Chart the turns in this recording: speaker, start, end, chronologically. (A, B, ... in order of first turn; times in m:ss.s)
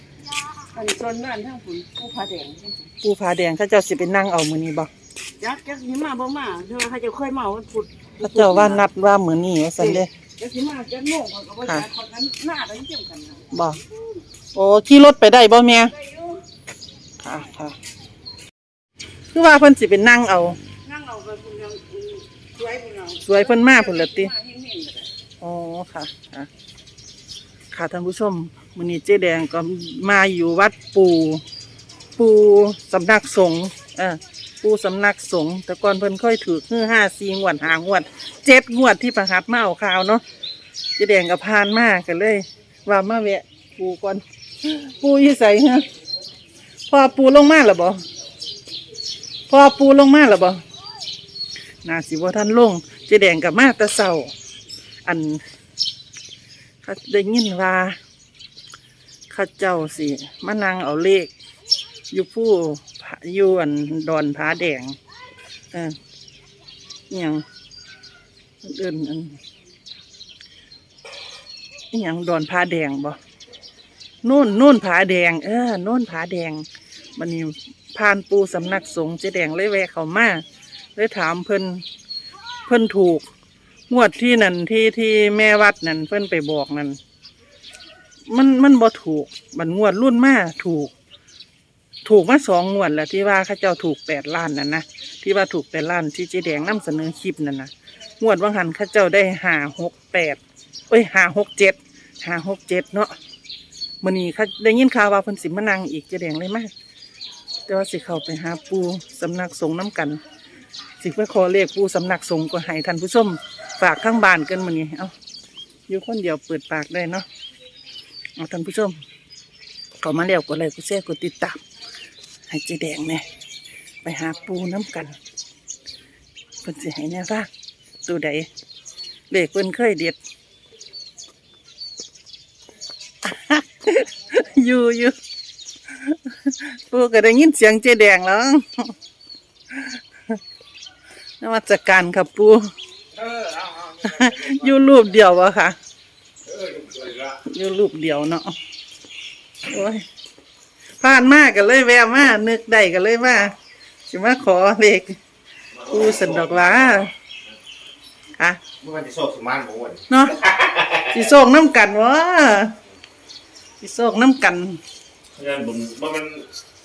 0:00.6-0:02.8 A
0:03.0-0:04.9 B
0:05.4-0:08.8 A
0:08.2-0:10.1 B
0:09.9-0:13.5 A
0:13.5-0:13.8 B
0:14.5-0:15.9 B
0:16.1-0:16.4 A
0:17.2-0:17.8 B
0:19.3-0:20.6 B
0:20.8-0:25.1 A
0:23.2-0:24.3 B
0:25.4-0:26.5 B
0:27.7-0:31.4 B
0:32.2-0:40.2 B
0:41.0-0:45.8 B
0:46.9-0:48.0 B
0:49.5-0:50.6 B
0:51.8-0:54.3 B
0:55.0-0:55.4 B
0:56.8-0:58.0 B
0:59.3-1:01.3 B
1:02.1-1:05.0 B
1:05.7-1:06.0 B
1:07.1-1:07.4 B
1:08.6-1:09.4 B
1:11.9-1:13.2 B
1:14.2-1:16.6 B
1:17.2-1:20.4 B
1:21.0-1:21.8 B
1:22.6-1:23.2 B
1:23.9-1:27.0 B
1:28.3-1:30.9 B
1:32.0-1:43.1 B
1:44.0-1:46.7 B
1:47.7-1:50.2 B
1:51.0-1:55.1 B
1:55.9-1:57.2 B
1:58.4-1:59.0 B
2:00.0-2:01.6 B
2:02.5-2:03.2 B
2:04.0-2:05.2 B
2:06.6-2:07.5 B
2:08.0-2:08.5 B
2:09.3-2:10.2 B
2:13.2-2:15.1 B
2:15.9-2:18.9 B
2:19.7-2:20.4 B
2:21.4-2:22.7 B
2:23.1-2:25.1 C
2:24.0-2:25.8 B
2:26.4-2:27.4 C
2:27.4-2:28.6 B
2:29.6-2:30.0 B
2:31.0-2:33.6 B
2:34.1-2:35.2 B
2:35.7-2:37.1 C
2:35.9-2:37.1 B
2:38.8-2:41.3 C
2:40.1-2:40.4 B
2:41.1-2:42.8 B
2:43.8-2:44.8 B
2:45.3-2:46.5 C